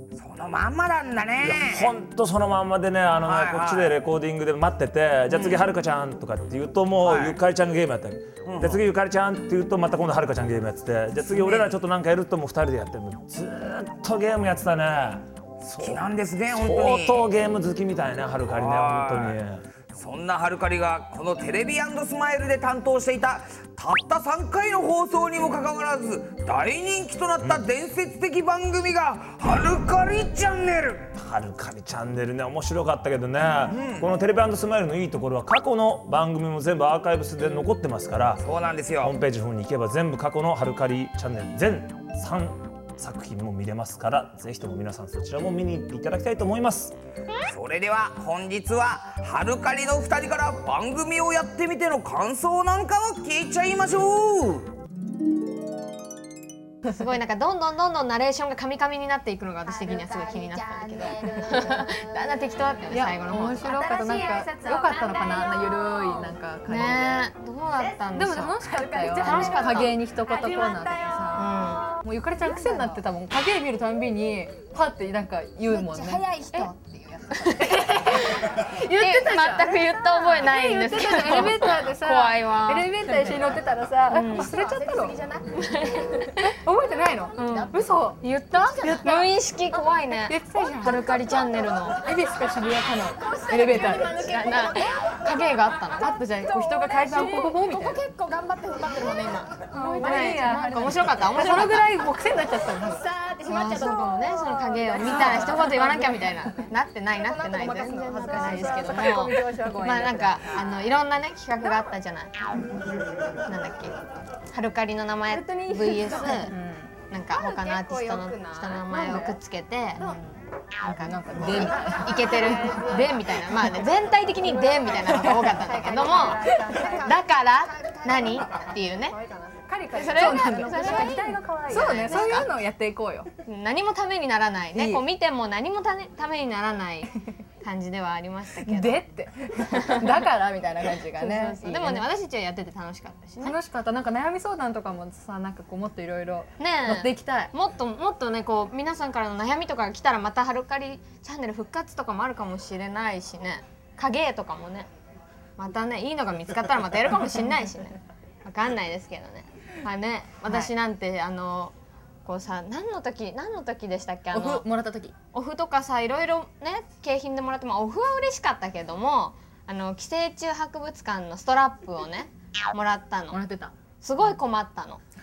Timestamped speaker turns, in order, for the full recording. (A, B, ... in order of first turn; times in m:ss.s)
0:00.2-0:01.9 A
0:01.4-0:19.6 B
0:03.2-0:03.9 A
0:05.3-0:05.7 A
0:07.0-0:07.4 A
0:08.4-0:08.8 A
0:11.3-0:11.8 A
0:15.8-0:17.3 A
0:18.5-0:19.4 A
0:19.9-0:31.1 A
0:31.2-0:38.4 B
0:33.7-0:34.1 A
0:38.4-0:39.1 A
0:39.0-0:46.9 B
0:47.5-0:54.7 A
0:56.9-1:03.8 C
1:02.9-1:07.2 D
1:04.0-1:05.8 E
1:06.7-1:10.0 C
1:08.1-1:16.7 D
1:11.3-1:11.9 C
1:15.8-1:23.4 C
1:17.6-1:25.2 D
1:24.1-1:24.9 C
1:25.4-1:26.5 C
1:26.5-1:28.2 D
1:27.4-1:32.0 C
1:29.0-1:29.3 D
1:30.2-1:31.1 D
1:32.0-1:34.2 D
1:33.5-1:36.2 C
1:36.0-1:38.0 D
1:37.1-1:41.9 C
1:39.7-1:43.1 D
1:43.1-1:44.1 E
1:43.4-1:52.4 C
1:45.0-1:45.6 D
1:47.4-1:50.0 E
1:48.4-1:49.4 D
1:53.4-1:56.5 C
1:56.5-1:56.9 D
1:57.1-2:09.2 C
1:57.7-1:58.6 E
2:01.0-2:02.1 D
2:05.8-2:06.7 E
2:06.2-2:06.8 D
2:09.6-2:13.3 D
2:09.9-2:12.5 C
2:13.4-2:17.1 C
2:14.7-2:15.0 D
2:17.6-2:19.0 C
2:18.6-2:22.0 D
2:19.8-2:20.1 C
2:21.2-2:23.6 C
2:23.4-2:27.5 D
2:26.6-2:34.9 C
2:35.6-2:41.7 C
2:42.2-2:44.6 C
2:44.3-2:45.1 D
2:45.3-2:53.4 C
2:53.3-2:53.7 D
2:54.0-2:55.0 C